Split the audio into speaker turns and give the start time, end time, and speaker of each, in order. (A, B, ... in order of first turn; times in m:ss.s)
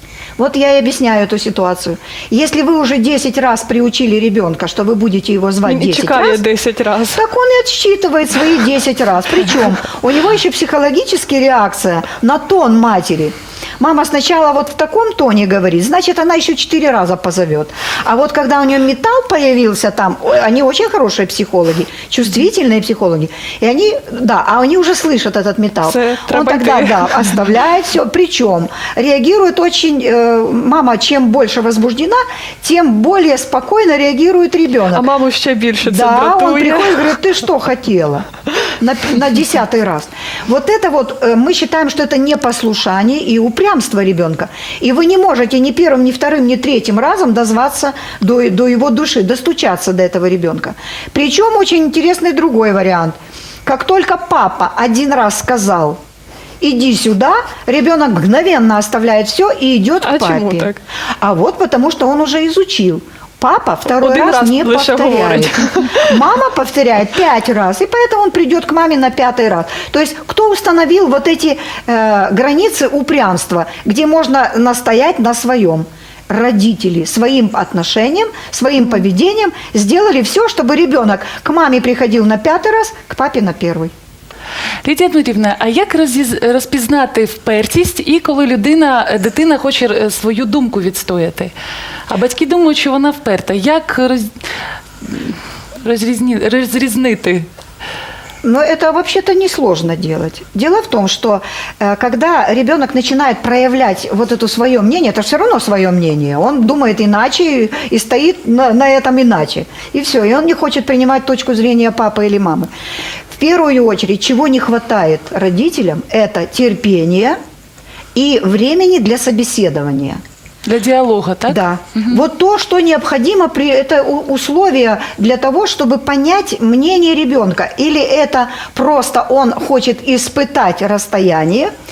0:00.4-0:06.4 A
0:05.6-0:07.2 B
0:07.1-0:35.1 A
0:25.9-0:27.2 B
0:34.9-0:37.0 B
0:35.8-0:56.0 A
0:56.6-1:23.9 A
1:00.0-1:00.8 B
1:03.9-1:06.1 B
1:24.8-1:31.5 C
1:32.1-1:34.3 C
1:35.0-1:37.5 C
1:38.4-1:52.7 A
1:53.3-1:57.4 A
1:58.2-2:00.2 A
2:00.6-2:02.2 C
2:01.5-2:11.7 A